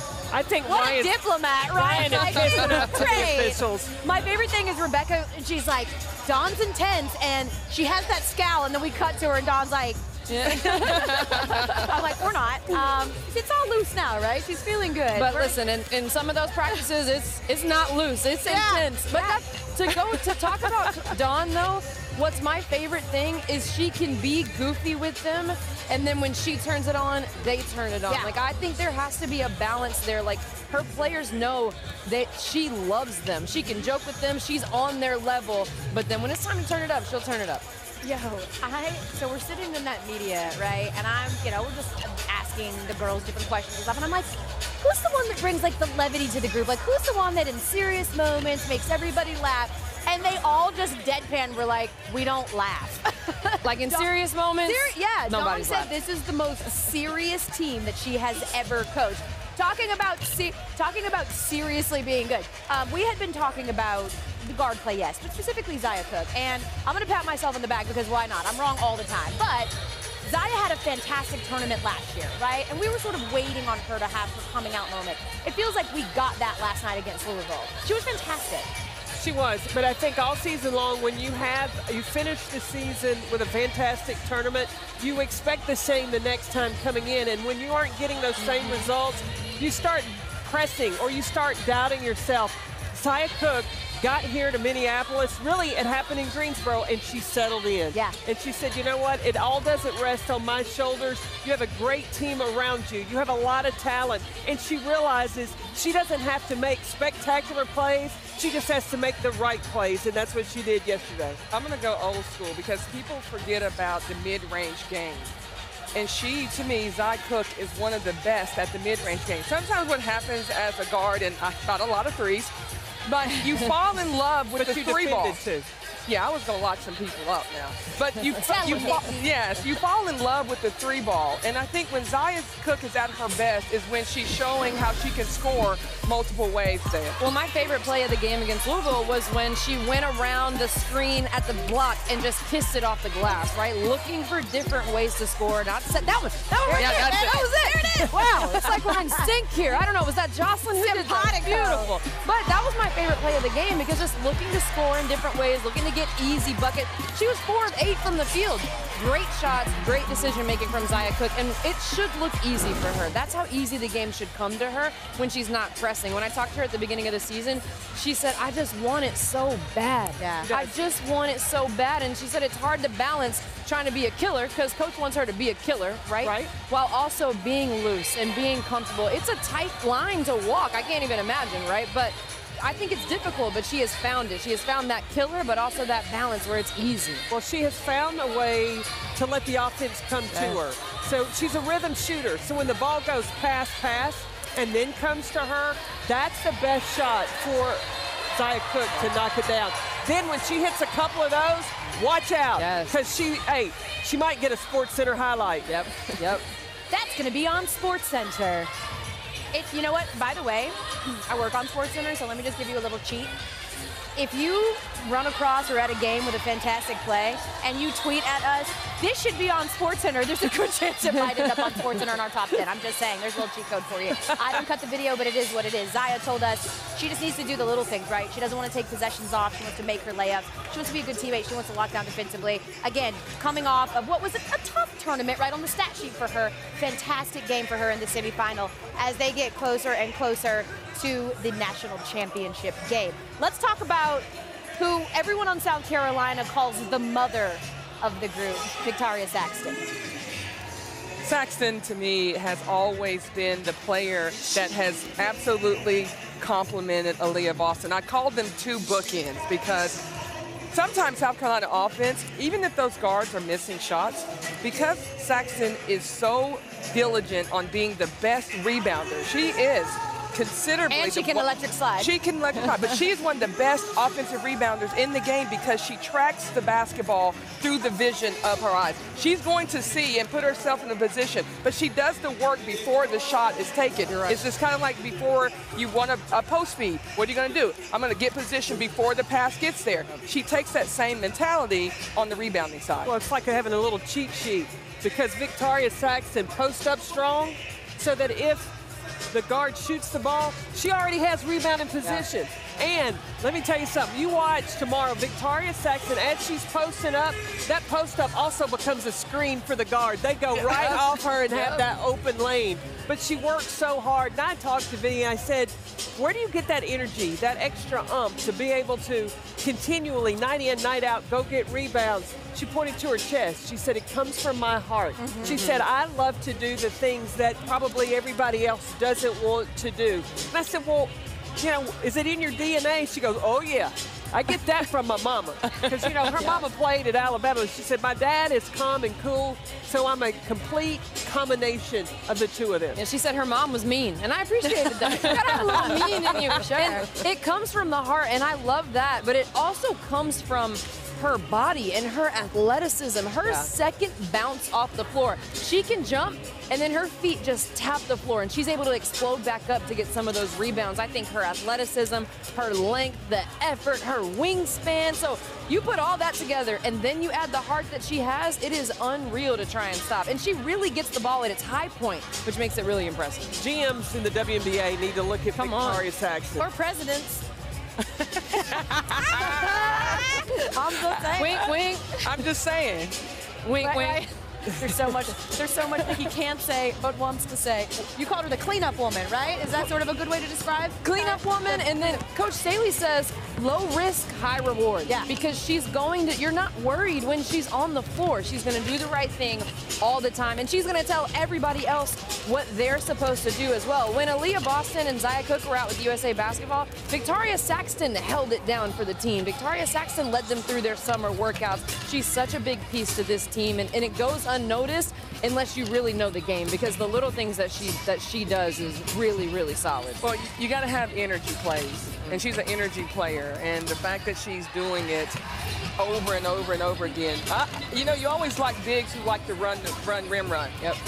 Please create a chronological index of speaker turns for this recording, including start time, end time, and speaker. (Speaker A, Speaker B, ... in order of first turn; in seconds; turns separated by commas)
Speaker A: 0.3-3.9, Speaker B: 0.7-15.6, Speaker C: 10.3-12.0, Speaker C: 15.1-37.6, Speaker B: 18.4-19.4, Speaker B: 28.1-28.3, Speaker B: 38.0-54.1, Speaker C: 53.6-55.9, Speaker B: 54.6-78.7, Speaker A: 79.2-111.4, Speaker B: 97.9-98.2, Speaker D: 111.5-115.3, Speaker D: 115.9-122.5, Speaker D: 123.1-125.4, Speaker A: 124.5-125.7, Speaker D: 126.1-137.2, Speaker B: 128.4-129.3, Speaker C: 137.2-187.3, Speaker B: 146.5-149.3, Speaker B: 150.8-151.9, Speaker B: 170.2-170.5, Speaker A: 170.5-170.7, Speaker A: 176.2-176.5, Speaker A: 187.3-205.8, Speaker C: 190.3-190.6, Speaker C: 202.6-203.0, Speaker C: 205.7-206.4, Speaker B: 206.9-208.7, Speaker B: 209.5-213.4, Speaker B: 214.2-249.9, Speaker D: 251.2-260.0, Speaker D: 260.7-271.5, Speaker B: 270.9-272.1, Speaker D: 272.0-293.1, Speaker A: 293.0-298.8, Speaker A: 299.3-343.0, Speaker C: 311.5-311.8, Speaker B: 325.2-325.6, Speaker C: 325.4-325.9, Speaker D: 335.8-336.1, Speaker C: 343.0-373.6, Speaker A: 345.0-347.0, Speaker B: 345.4-347.0, Speaker A: 373.6-376.7, Speaker C: 375.6-376.1, Speaker B: 376.6-377.4, Speaker D: 378.1-380.0, Speaker B: 379.1-381.6, Speaker C: 381.3-382.4, Speaker D: 382.2-383.2, Speaker C: 383.6-384.3, Speaker B: 383.8-391.8, Speaker C: 391.0-420.2, Speaker D: 420.2-425.4, Speaker D: 426.0-430.8